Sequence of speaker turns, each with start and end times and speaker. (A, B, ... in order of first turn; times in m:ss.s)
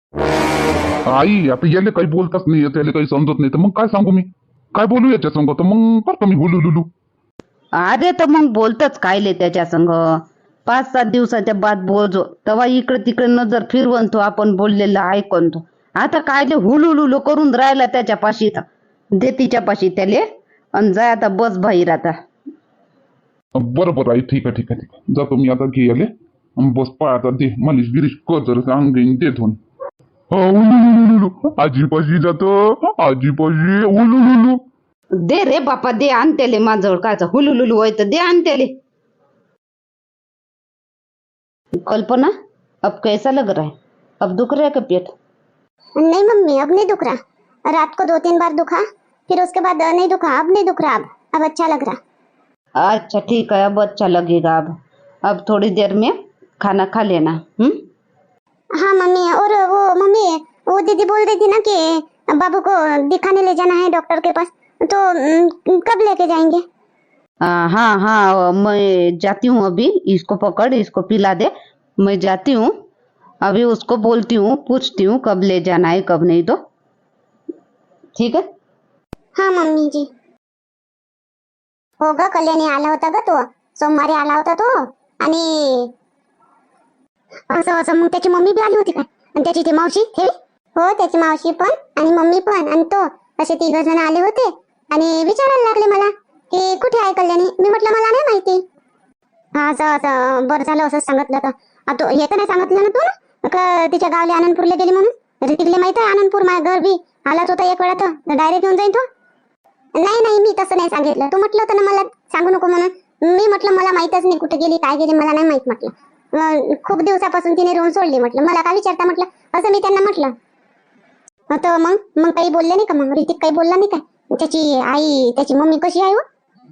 0:01.1-0:06.9 A
0:07.8-0:22.2 B
0:23.6-0:29.6 A
0:30.3-0:34.6 A
0:35.2-0:38.8 B
0:41.8-0:42.3 B
0:42.8-0:45.1 B
0:46.0-0:52.0 C
0:52.8-0:57.8 B
0:58.8-1:06.6 C
1:07.4-1:12.7 B
1:13.4-1:16.6 B
1:18.2-1:18.5 B
1:19.4-1:20.1 C
1:22.0-1:25.9 C
1:27.5-1:38.6 C
1:39.6-1:49.0 C
1:50.0-2:00.3 C
2:01.5-2:06.2 C